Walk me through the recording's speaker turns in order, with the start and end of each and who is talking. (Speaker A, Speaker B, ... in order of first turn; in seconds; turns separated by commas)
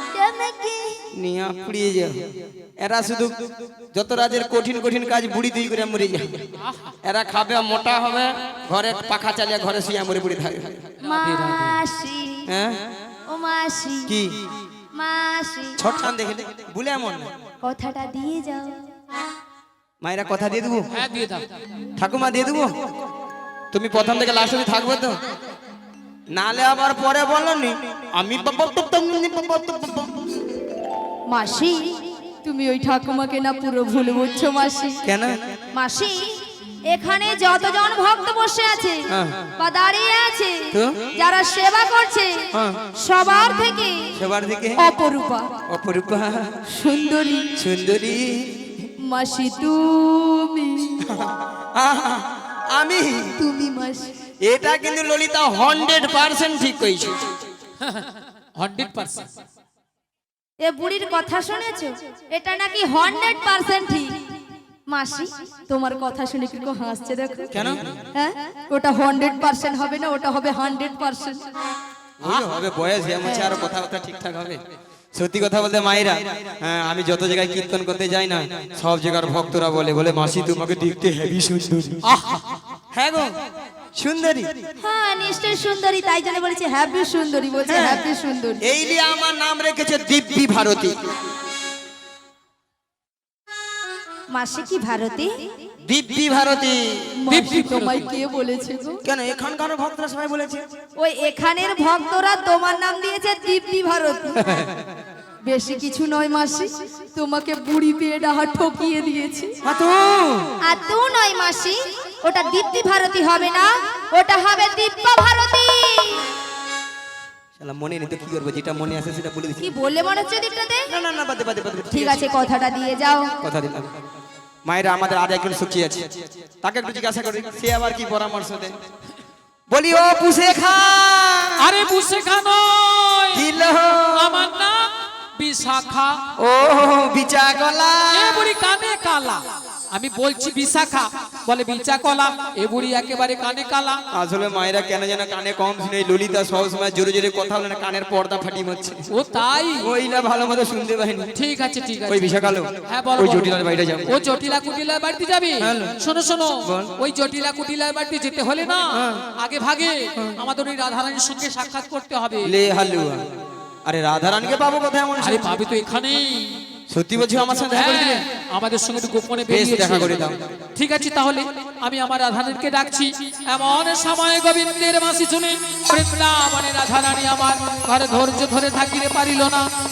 Speaker A: 0.1-1.0, Speaker B: 1.1-2.2, Speaker B: 2.8-3.4, Speaker B: 3.9-6.5, Speaker C: 6.6-6.9, Speaker B: 7.0-10.9, Speaker C: 11.0-11.8, Speaker A: 11.0-12.5, Speaker B: 12.5-12.8, Speaker A: 13.3-14.1, Speaker B: 14.1-14.4, Speaker A: 15.0-15.8, Speaker B: 15.8-17.3, Speaker A: 17.6-18.8, Speaker B: 20.0-20.9, Speaker C: 20.9-21.4, Speaker B: 22.0-22.7, Speaker B: 23.7-25.2, Speaker B: 26.3-30.3, Speaker A: 31.3-35.0, Speaker B: 35.0-35.5, Speaker A: 35.7-42.4, Speaker B: 39.1-39.4, Speaker B: 40.7-41.0, Speaker B: 42.5-42.8, Speaker A: 43.0-44.1, Speaker B: 44.2-44.8, Speaker A: 44.8-45.5, Speaker B: 45.7-46.6, Speaker A: 46.7-47.5, Speaker B: 47.6-48.9, Speaker A: 49.1-51.1, Speaker B: 51.0-53.3, Speaker A: 53.4-54.1, Speaker B: 54.4-57.3, Speaker C: 58.6-59.3, Speaker A: 60.6-64.2, Speaker A: 64.9-67.5, Speaker B: 67.5-68.0, Speaker A: 68.2-71.4, Speaker B: 72.2-74.6, Speaker A: 73.2-73.5, Speaker B: 75.2-82.1, Speaker C: 82.0-82.4, Speaker B: 82.9-83.3, Speaker B: 84.0-84.5, Speaker A: 84.8-88.6, Speaker B: 87.7-88.0, Speaker B: 88.6-91.0, Speaker A: 94.3-95.3, Speaker B: 95.8-97.2, Speaker A: 97.2-99.0, Speaker C: 97.3-98.1, Speaker B: 99.0-100.7, Speaker A: 101.0-104.4, Speaker B: 104.4-104.8, Speaker A: 105.5-109.6, Speaker B: 109.6-110.5, Speaker A: 110.6-116.2, Speaker B: 117.6-119.7, Speaker A: 119.6-120.9, Speaker B: 120.9-122.3, Speaker A: 121.9-123.3, Speaker B: 123.4-123.9, Speaker B: 124.7-128.8, Speaker B: 129.7-131.8, Speaker C: 131.6-133.5, Speaker B: 133.3-134.4, Speaker C: 134.2-136.2, Speaker B: 136.4-138.5, Speaker C: 138.1-144.0, Speaker B: 144.1-149.1, Speaker C: 149.1-149.9, Speaker B: 149.8-151.3, Speaker C: 151.3-152.3, Speaker B: 152.1-154.2, Speaker C: 152.9-162.5, Speaker B: 155.6-156.0, Speaker B: 156.6-156.9, Speaker B: 158.9-159.3, Speaker B: 162.4-163.3, Speaker B: 163.8-165.6, Speaker C: 165.2-166.6, Speaker B: 166.9-168.2, Speaker C: 167.7-179.7, Speaker B: 169.5-170.4